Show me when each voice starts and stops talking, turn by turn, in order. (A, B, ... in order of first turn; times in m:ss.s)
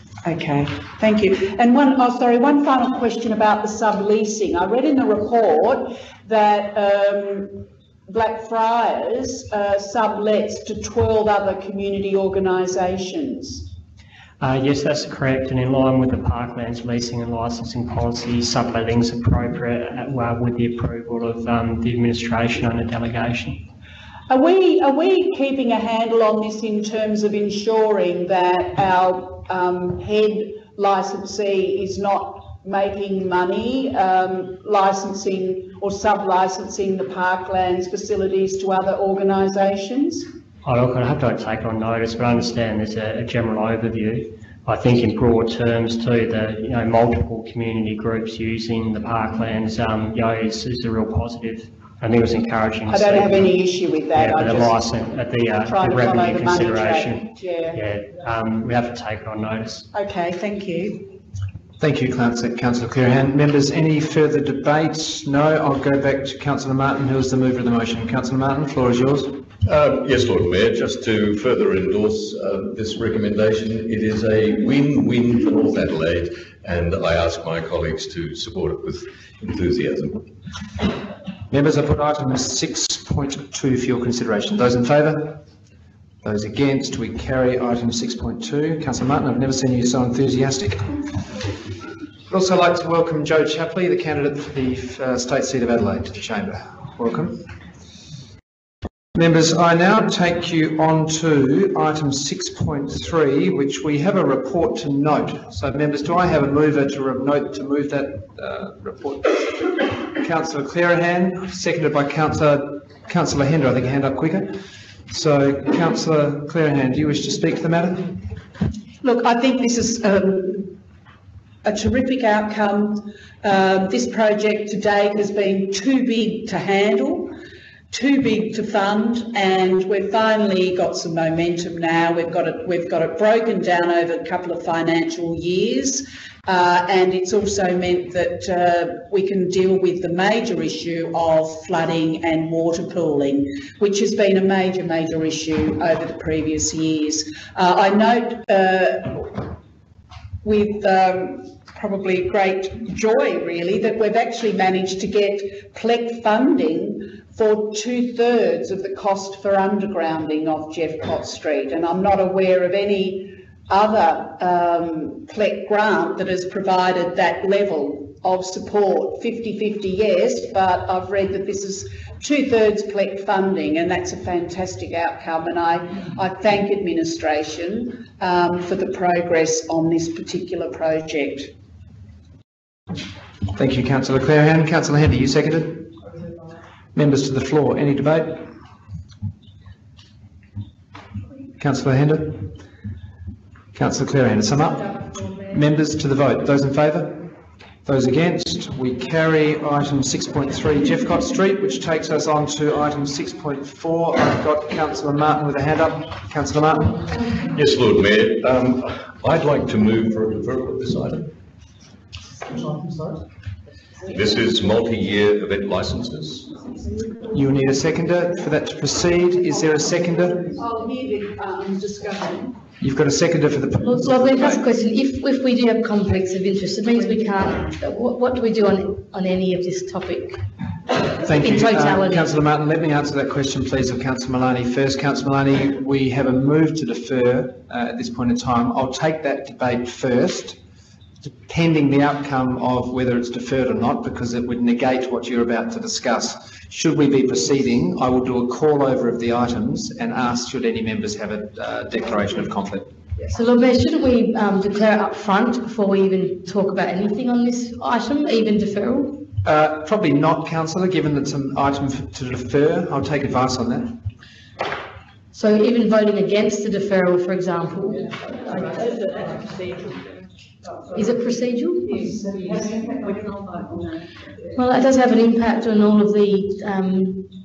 0:00.2-0:13.7 A
0:14.4-0:23.6 B
0:24.3-0:40.3 A
0:40.6-0:53.6 B
0:52.9-0:54.9 A
0:54.2-0:59.9 B
0:55.7-0:57.8 A
0:59.9-1:01.0 A
1:01.8-1:09.3 C
1:09.6-1:20.3 D
1:21.5-1:25.4 C
1:26.2-1:31.0 C
1:32.3-1:37.4 C
1:39.2-1:49.5 C
1:50.2-1:54.5 C
1:55.1-1:58.0 C
1:59.0-2:00.8 A
2:01.6-2:07.3 A
2:07.9-2:29.4 A
2:30.4-3:01.5 A
3:03.6-3:05.9 C
3:07.0-3:08.5 C
3:11.6-3:12.5 C
3:13.7-3:17.2 C
3:17.8-3:27.1 C
3:27.5-3:31.3 D
3:34.1-3:36.5 D
3:37.3-3:40.4 C
3:40.5-3:42.5 A
3:42.8-3:44.6 C
3:43.8-3:50.4 E
3:51.2-4:00.6 C
3:51.2-3:52.4 E
4:01.2-4:12.9 C
4:13.3-4:19.2 E
4:19.4-4:23.9 C
4:25.3-4:29.1 E
4:30.9-4:32.2 E
4:34.5-4:37.2 E